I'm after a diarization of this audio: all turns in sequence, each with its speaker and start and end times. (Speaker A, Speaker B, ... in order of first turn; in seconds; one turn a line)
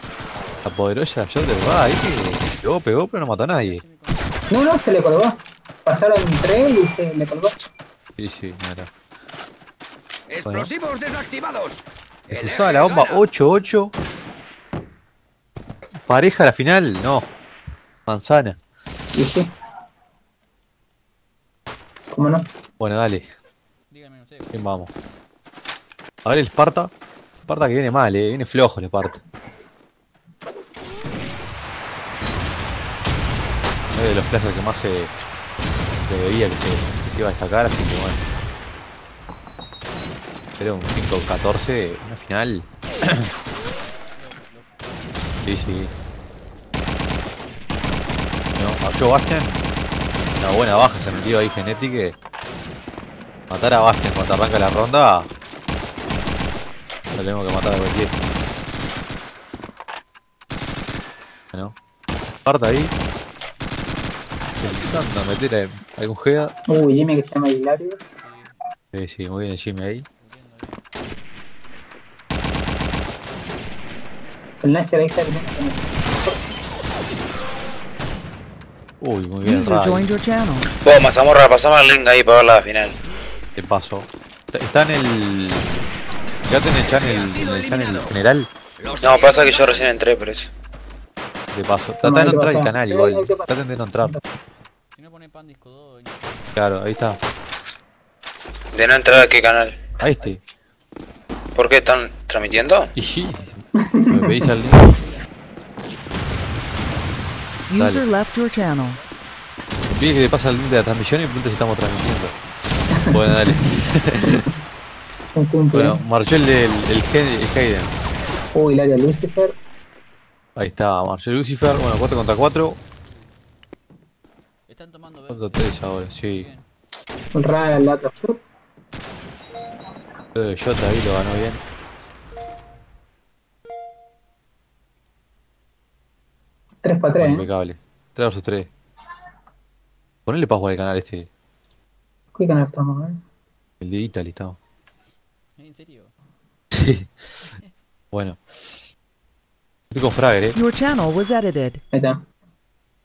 Speaker A: 0.6-3.8
Speaker B: 3.5-4.5
Speaker C: 4.5-7.6
Speaker A: 8.2-8.9
Speaker D: 10.3-13.2
Speaker A: 12.3-13.9
Speaker A: 16.1-17.3
Speaker A: 18.1-18.6
Speaker C: 19.1-19.5
Speaker A: 19.1-19.4
Speaker C: 22.1-22.5
Speaker A: 22.8-23.3
Speaker B: 23.9-24.9
Speaker A: 24.5-24.9
Speaker A: 26.2-26.9
Speaker A: 27.5-29.2
Speaker B: 31.1-31.6
Speaker A: 33.9-35.1
Speaker A: 36.1-38.2
Speaker B: 39.9-40.7
Speaker A: 40.6-43.3
Speaker B: 44.1-46.1
Speaker A: 45.4-45.9
Speaker A: 48.6-49.6
Speaker A: 50.4-52.1
Speaker A: 53.5-55.3
Speaker A: 57.1-58.2
Speaker A: 62.4-62.9
Speaker A: 64.6-66.5
Speaker C: 66.7-68.0
Speaker B: 68.1-68.5
Speaker A: 68.9-70.0
Speaker B: 70.2-70.8
Speaker C: 74.6-76.3
Speaker A: 79.0-80.1
Speaker E: 79.4-80.7
Speaker F: 80.7-82.9
Speaker A: 83.6-85.7
Speaker A: 86.5-88.5
Speaker D: 87.0-88.1
Speaker D: 88.8-90.0
Speaker F: 89.0-90.5
Speaker A: 91.5-94.2
Speaker C: 92.0-94.2
Speaker B: 94.9-96.7
Speaker A: 96.5-97.2
Speaker F: 98.7-99.8
Speaker A: 100.0-100.4
Speaker F: 101.5-102.9
Speaker A: 102.9-104.9
Speaker B: 103.1-103.6
Speaker C: 103.8-104.5
Speaker B: 104.5-105.6
Speaker B: 106.4-107.5
Speaker E: 107.7-109.0
Speaker A: 107.8-108.1
Speaker B: 108.6-109.3
Speaker A: 109.9-114.5
Speaker C: 112.9-113.2
Speaker C: 114.2-114.5
Speaker C: 115.3-116.0
Speaker A: 115.7-118.2
Speaker C: 118.5-119.5
Speaker A: 120.5-122.8
Speaker B: 123.0-123.4
Speaker B: 124.7-126.7
Speaker A: 125.3-126.5
Speaker C: 127.3-128.4
Speaker A: 130.3-131.6
Speaker C: 136.8-137.5
Speaker A: 137.2-138.7
Speaker A: 140.2-141.3
Speaker C: 142.3-143.2
Speaker A: 143.8-144.6
Speaker B: 145.6-146.1
Speaker A: 146.7-147.5
Speaker B: 147.3-147.7
Speaker A: 148.1-148.4
Speaker A: 149.9-150.6
Speaker E: 150.5-151.8
Speaker C: 151.9-152.2